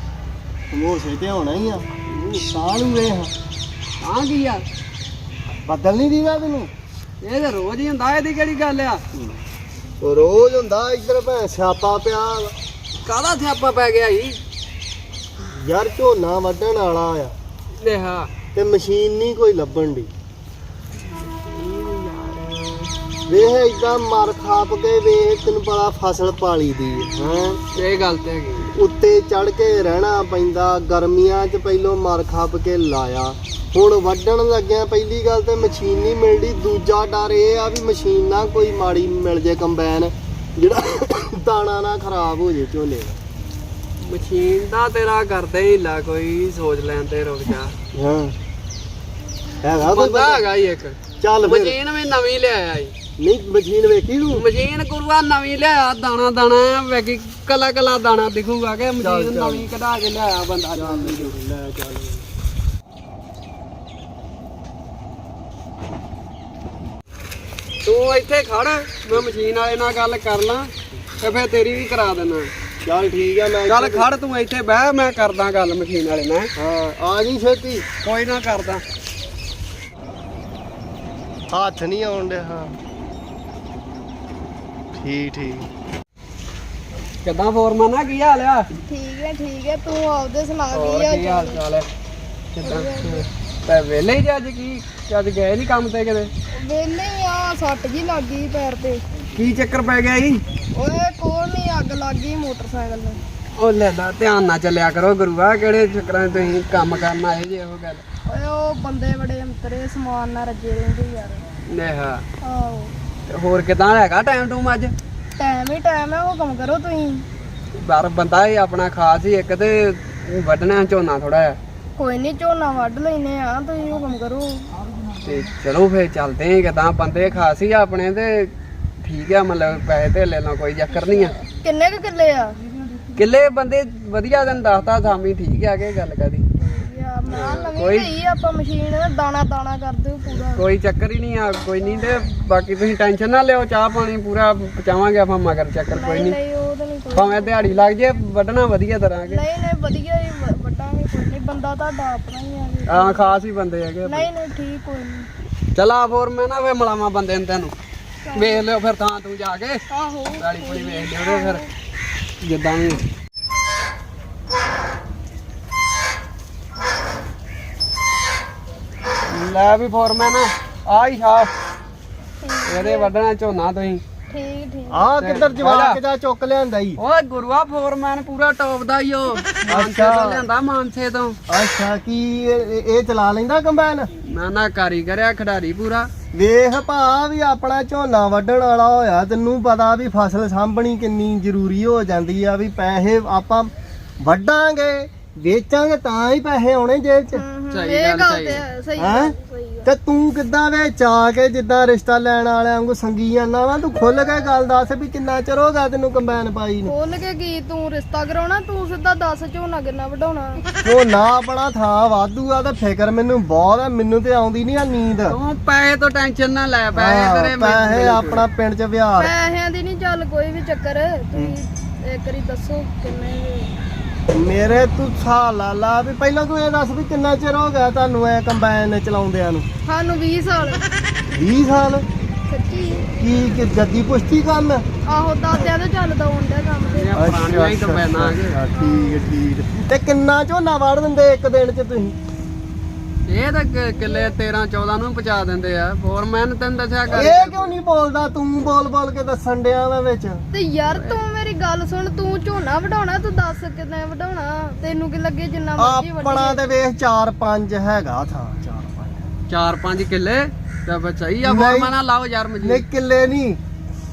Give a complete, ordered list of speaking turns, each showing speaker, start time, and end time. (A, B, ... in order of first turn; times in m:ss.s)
0:00.7-0:01.9 A
0:02.1-0:02.5 B
0:02.4-0:03.3 A
0:04.0-0:04.6 B
0:05.6-0:06.7 A
0:07.2-0:09.0 B
0:09.1-0:09.4 A
0:10.0-0:12.5 A
0:13.0-0:14.4 B
0:15.5-0:17.3 A
0:17.8-0:18.3 B
0:18.5-0:20.1 A
0:21.0-0:22.9 B
0:23.3-0:27.6 A
0:27.7-0:28.7 B
0:28.7-0:43.2 A
0:44.0-0:47.7 B
0:47.9-0:48.3 A
0:49.6-0:50.4 A
0:49.8-0:52.9 B
0:51.2-0:51.8 A
0:53.2-0:54.5 A
0:54.3-1:01.3 B
0:59.0-0:59.7 A
1:00.7-1:02.2 A
1:07.8-1:12.5 B
1:12.8-1:14.1 A
1:13.7-1:16.5 B
1:16.6-1:17.9 A
1:18.0-1:18.8 B
1:21.5-1:22.8 A
1:24.9-1:25.7 A
1:27.2-1:28.7 B
1:28.9-1:31.6 C
1:30.7-1:31.9 B
1:32.5-1:36.3 B
1:32.6-1:33.2 C
1:36.5-1:39.0 C
1:39.4-1:40.4 B
1:40.7-1:43.2 C
1:43.6-1:48.0 B
1:48.2-1:51.4 C
1:51.7-1:52.2 B
1:52.4-1:52.9 C
1:53.3-1:54.9 B
1:55.4-1:57.2 C
1:57.8-2:01.6 B
2:02.0-2:04.7 C
2:05.2-2:11.3 B
2:10.9-2:12.6 C
2:13.1-2:16.4 B
2:16.6-2:20.6 C
2:17.3-2:18.1 B
2:20.5-2:26.4 B
2:21.8-2:22.2 C
2:25.9-2:28.1 C
2:27.1-2:29.4 B
2:29.2-2:33.4 C
2:32.9-2:34.3 B
2:34.0-2:35.3 C
2:35.7-2:37.7 B
2:38.2-2:38.6 C
2:38.3-2:39.8 B
2:39.9-2:41.7 C
2:40.4-2:41.6 B
2:42.4-2:43.0 B
2:49.3-2:51.5 B
2:52.4-2:53.1 C
2:52.7-2:54.0 B
2:54.3-2:55.1 C
2:54.9-2:57.0 A
2:55.2-2:56.0 B
2:57.0-3:01.4 B
2:59.7-3:00.4 A
3:01.5-3:04.1 A
3:04.2-3:06.1 B
3:06.3-3:17.4 A
3:17.3-3:19.9 C
3:17.7-3:18.6 B
3:19.0-3:19.3 A
3:19.8-3:26.9 A
3:26.8-3:30.6 C
3:30.8-3:35.4 A
3:35.3-3:38.5 B
3:36.9-3:39.3 A
3:39.2-3:43.8 C
3:44.3-3:49.7 A
3:49.8-3:50.8 C
3:51.3-3:52.0 A
3:52.5-3:53.1 C
3:53.2-3:54.8 A
3:55.1-3:57.3 C
3:56.8-3:58.6 B
3:57.1-4:02.1 A
3:58.7-3:59.3 C
4:03.3-4:07.8 B
4:04.0-4:04.3 C
4:07.1-4:10.4 A
4:10.5-4:16.7 C
4:10.9-4:11.2 B
4:15.8-4:19.3 A
4:19.5-4:22.8 B
4:21.4-4:21.9 A
4:22.6-4:23.6 A